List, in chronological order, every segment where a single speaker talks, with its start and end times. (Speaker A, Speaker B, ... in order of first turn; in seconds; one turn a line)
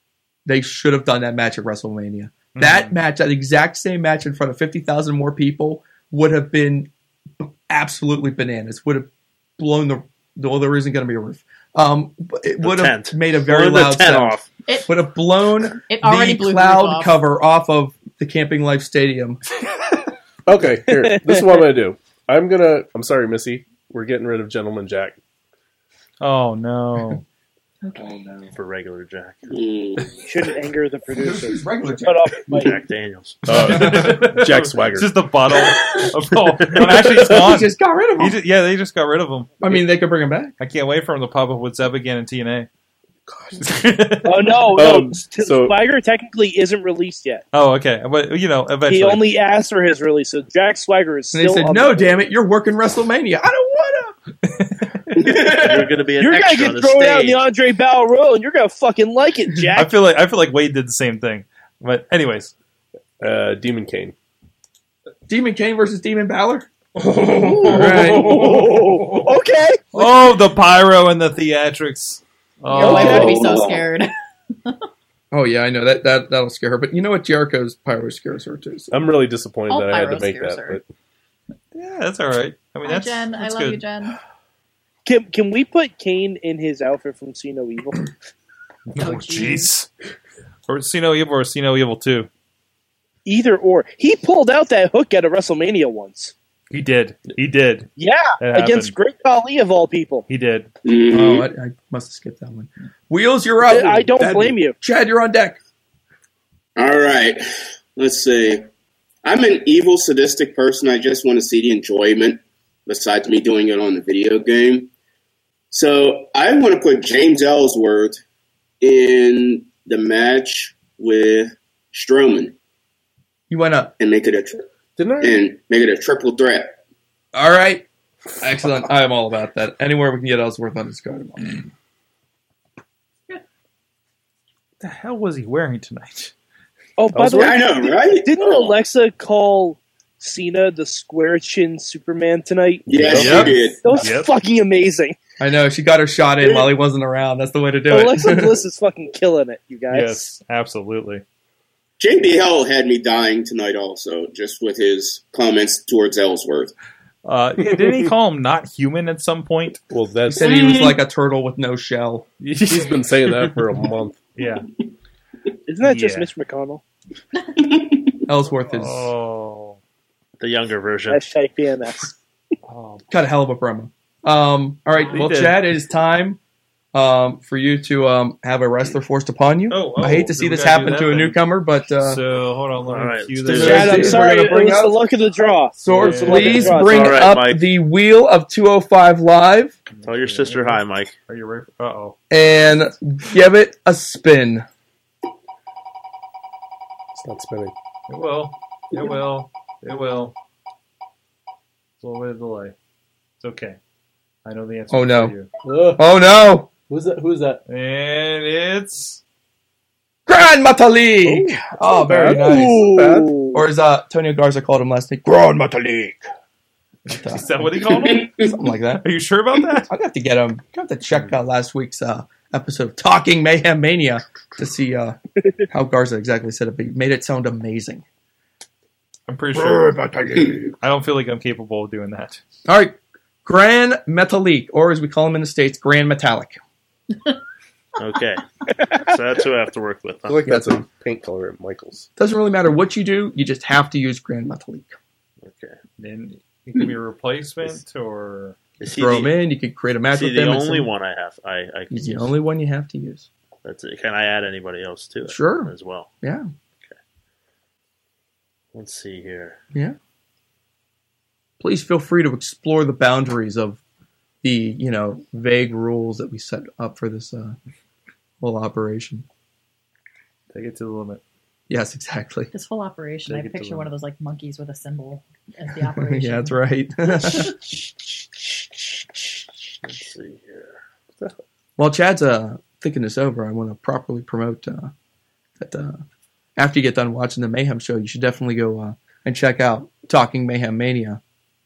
Speaker A: 0.5-19.4
Speaker B: 2.5-2.9
Speaker C: 12.6-14.5
Speaker D: 14.7-15.0
Speaker D: 15.7-17.2
Speaker E: 20.4-25.2
Speaker F: 20.9-21.6
Speaker B: 26.2-27.2
Speaker C: 28.5-29.5
Speaker G: 29.5-30.2
Speaker F: 30.2-32.8
Speaker A: 31.1-32.3
Speaker C: 32.5-33.7
Speaker E: 33.5-35.1
Speaker B: 33.5-39.7
Speaker A: 33.8-34.1
Speaker E: 36.3-37.1
Speaker A: 36.8-38.4
Speaker A: 39.6-40.5
Speaker B: 40.6-42.7
Speaker E: 43.3-44.0
Speaker B: 43.6-44.6
Speaker F: 44.2-47.4
Speaker E: 44.7-45.8
Speaker B: 47.5-49.2
Speaker F: 48.9-52.2
Speaker A: 51.3-54.2
Speaker A: 55.2-55.9
Speaker G: 55.2-55.9
Speaker C: 55.4-57.4
Speaker F: 56.2-59.9
Speaker B: 59.7-62.5
Speaker E: 63.2-64.1
Speaker A: 65.3-66.7
Speaker E: 67.1-68.8
Speaker A: 67.2-68.7
Speaker F: 67.4-69.8
Speaker B: 69.9-73.3
Speaker D: 72.7-74.1
Speaker F: 72.8-73.4
Speaker G: 73.1-73.9
Speaker A: 75.3-79.1
Speaker E: 78.9-80.8
Speaker D: 79.7-80.8
Speaker B: 81.7-83.8
Speaker D: 82.8-84.2
Speaker F: 85.0-88.1
Speaker B: 88.9-89.9
Speaker D: 89.0-89.7
Speaker B: 90.7-92.3
Speaker F: 93.2-96.3
Speaker B: 96.7-98.9
Speaker F: 98.0-100.3
Speaker B: 100.3-100.7
Speaker G: 100.8-101.5
Speaker A: 101.1-104.2
Speaker F: 103.7-104.8
Speaker E: 104.2-104.5
Speaker A: 104.8-105.6
Speaker G: 106.8-107.4
Speaker G: 108.0-108.7
Speaker G: 109.2-114.9
Speaker G: 115.7-118.2
Speaker G: 118.8-122.5
Speaker A: 123.5-123.9
Speaker G: 124.0-124.7
Speaker E: 125.0-125.4
Speaker G: 125.2-126.7
Speaker A: 127.3-127.8
Speaker A: 128.4-131.7
Speaker B: 134.8-136.3
Speaker F: 137.0-145.2
Speaker E: 137.1-137.6
Speaker G: 137.3-138.7
Speaker G: 142.9-143.9
Speaker E: 142.9-143.6
Speaker B: 143.1-144.3
Speaker A: 145.4-148.6
Speaker F: 146.4-146.7
Speaker F: 147.9-150.3
Speaker E: 149.9-150.2
Speaker B: 149.9-151.2
Speaker G: 152.0-156.7
Speaker B: 157.2-159.8
Speaker E: 159.9-160.5
Speaker A: 160.3-162.3
Speaker G: 160.4-161.0
Speaker B: 162.4-163.5
Speaker E: 162.7-164.2
Speaker B: 164.3-164.7
Speaker F: 165.7-166.8
Speaker B: 165.8-166.3
Speaker G: 167.6-168.1
Speaker A: 168.3-169.1
Speaker B: 168.7-169.8
Speaker C: 170.4-171.2
Speaker F: 171.1-172.1
Speaker B: 172.7-173.0
Speaker A: 173.1-176.4
Speaker B: 175.1-175.6
Speaker A: 176.9-182.2
Speaker B: 179.7-181.4
Speaker B: 182.0-184.3
Speaker C: 182.9-184.1
Speaker A: 183.5-185.0
Speaker F: 183.6-187.3
Speaker A: 185.8-189.8
Speaker B: 185.9-186.9
Speaker C: 186.8-187.7
Speaker B: 189.9-192.2
Speaker C: 190.0-191.1
Speaker A: 192.3-194.7
Speaker E: 197.1-197.7
Speaker B: 198.1-200.3
Speaker B: 202.0-202.7
Speaker B: 203.4-203.8
Speaker B: 204.4-205.5
Speaker A: 204.9-205.3
Speaker E: 205.6-206.0
Speaker A: 205.9-206.7
Speaker E: 206.9-207.6
Speaker B: 207.7-209.2
Speaker A: 210.3-213.0
Speaker E: 211.2-213.3
Speaker F: 212.2-213.6
Speaker A: 213.5-216.2
Speaker A: 217.1-219.0
Speaker B: 217.3-218.3
Speaker G: 218.0-218.5
Speaker B: 219.0-219.9
Speaker A: 219.9-225.2
Speaker A: 225.7-228.0
Speaker B: 229.3-229.9
Speaker A: 229.5-230.7
Speaker B: 230.8-232.4
Speaker A: 232.7-236.6
Speaker C: 238.0-238.4
Speaker C: 238.9-240.4
Speaker E: 240.3-242.1
Speaker A: 240.5-240.8
Speaker A: 242.2-244.9
Speaker C: 245.4-245.8
Speaker B: 246.0-248.6
Speaker C: 248.8-249.4
Speaker A: 248.9-250.9
Speaker C: 250.1-252.3
Speaker A: 251.9-253.3
Speaker C: 253.6-256.1
Speaker A: 255.3-256.5
Speaker C: 258.7-259.6
Speaker A: 261.6-263.8
Speaker A: 264.4-267.6
Speaker A: 268.4-269.2
Speaker B: 270.5-271.2
Speaker A: 271.7-272.5
Speaker D: 272.5-276.6
Speaker B: 273.3-273.9
Speaker A: 275.9-277.6
Speaker D: 277.2-277.5
Speaker C: 279.8-280.7
Speaker A: 281.8-284.9
Speaker A: 285.6-286.0
Speaker A: 286.6-291.2